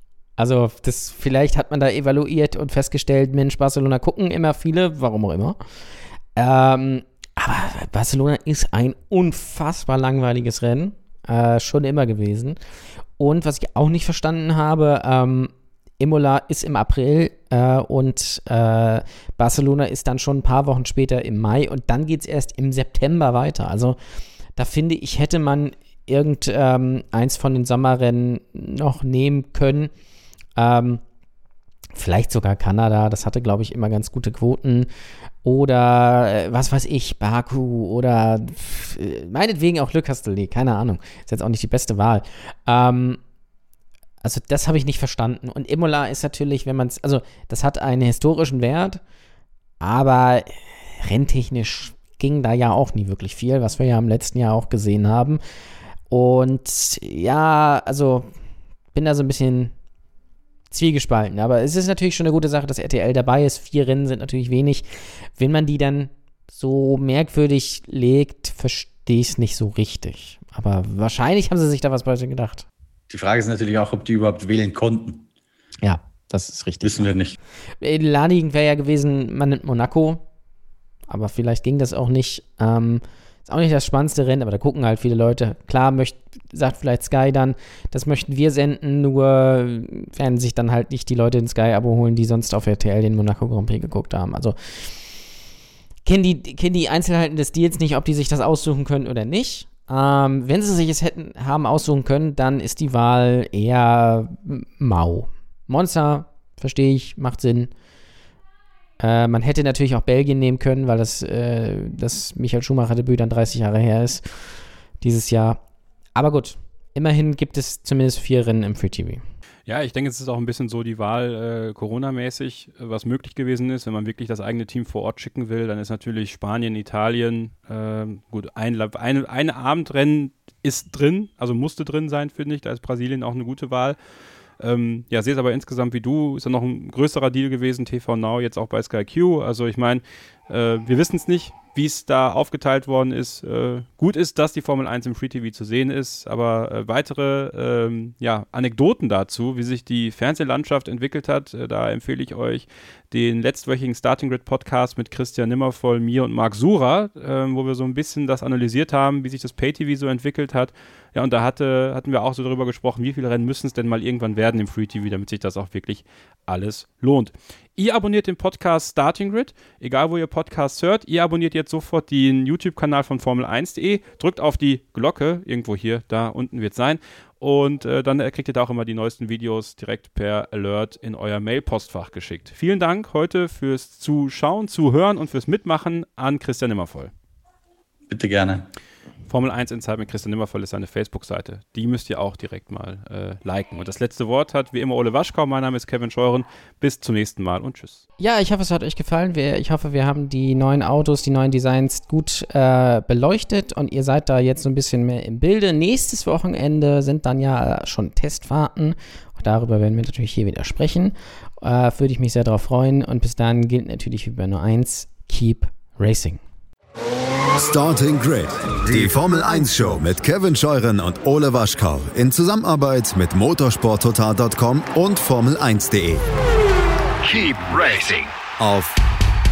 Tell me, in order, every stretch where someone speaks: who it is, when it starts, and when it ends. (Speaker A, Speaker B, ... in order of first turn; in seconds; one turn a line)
Speaker A: 0.4-5.6
Speaker A: 6.4-12.6
Speaker A: 13.2-24.0
Speaker A: 24.6-29.9
Speaker A: 30.6-31.0
Speaker A: 31.9-34.9
Speaker A: 35.4-43.2
Speaker A: 44.2-49.0
Speaker A: 49.8-55.4
Speaker A: 56.1-58.3
Speaker A: 58.9-59.7
Speaker A: 60.7-72.7
Speaker B: 73.1-75.2
Speaker A: 75.8-77.1
Speaker B: 76.8-77.4
Speaker A: 77.8-80.2
Speaker A: 81.1-94.6
Speaker A: 96.0-107.7
Speaker A: 109.0-114.3
Speaker A: 115.0-115.6
Speaker A: 116.2-119.2
Speaker C: 119.7-134.0
Speaker C: 134.6-187.1
Speaker B: 188.1-188.7
Speaker C: 189.3-198.0
Speaker A: 198.2-216.4
Speaker D: 217.6-226.2
Speaker D: 227.2-229.0